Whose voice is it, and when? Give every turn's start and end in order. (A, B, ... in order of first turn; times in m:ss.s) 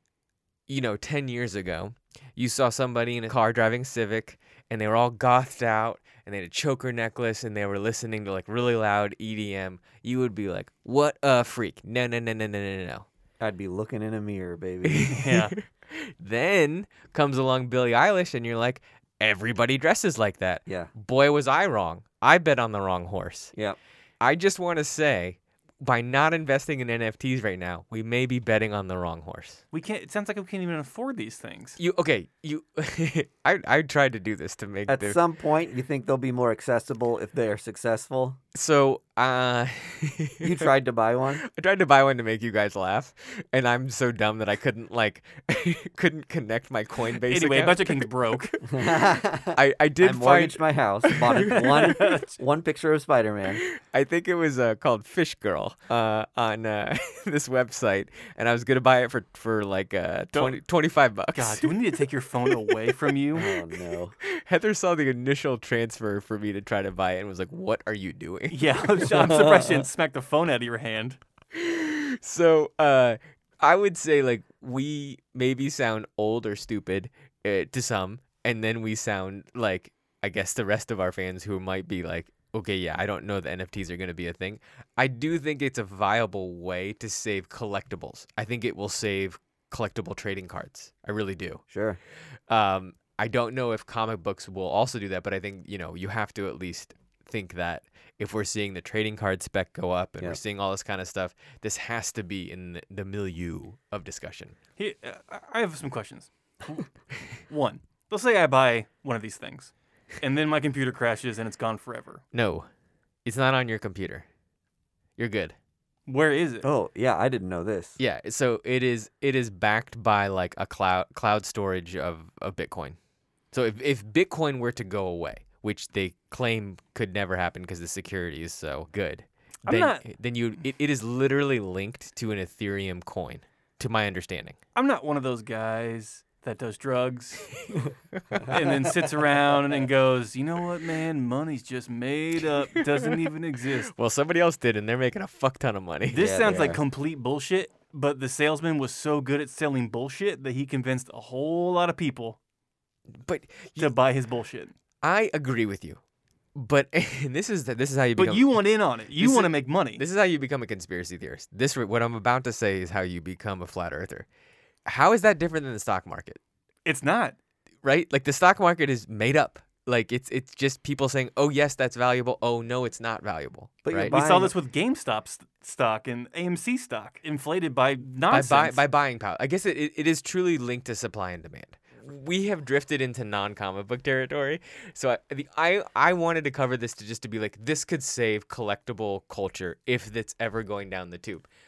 0:00.7-0:13.0 A
0:13.4-0:15.1 B
0:14.8-0:23.5 A
0:15.0-0:15.5 C
0:24.2-0:29.6 A
0:29.7-0:31.8 C
0:31.8-0:35.2 A
0:34.9-0:38.4 B
0:38.5-0:40.7 A
0:40.4-0:41.4 B
0:41.4-0:49.0 A
0:47.2-0:48.5 C
0:48.6-0:53.6 B
0:49.5-0:52.2 A
0:51.5-0:52.2 C
0:53.6-1:03.0 A
1:01.3-1:03.5 C
1:03.3-1:04.2 B
1:04.2-1:09.4 A
1:08.5-1:11.2 C
1:09.2-1:09.8 B
1:11.5-1:31.6 A
1:31.7-1:32.0 B
1:32.5-1:44.6 A
1:44.8-1:46.9 C
1:47.5-1:52.2 C
1:52.3-1:52.7 A
1:53.2-1:54.2 A
1:55.2-1:55.6 A
1:56.1-1:56.6 C
1:56.6-1:58.0 B
1:58.0-2:03.0 A
2:03.5-2:14.6 A
2:09.6-2:10.0 C
2:14.7-2:17.5 C
2:18.2-2:18.8 A
2:18.3-2:18.7 B
2:18.5-2:23.9 C
2:22.8-2:23.2 A
2:23.8-2:26.4 A
2:26.1-2:32.4 C
2:26.2-2:26.8 B
2:33.2-2:33.9 A
2:33.8-2:34.7 C
2:35.0-2:36.0 A
2:36.5-2:38.6 A
2:38.2-2:40.0 C
2:39.2-2:44.3 A
2:44.8-2:46.4 A
2:46.8-2:47.4 C
2:47.8-2:54.2 A
2:53.8-2:54.5 B
2:54.1-2:58.8 C
2:58.3-3:11.5 A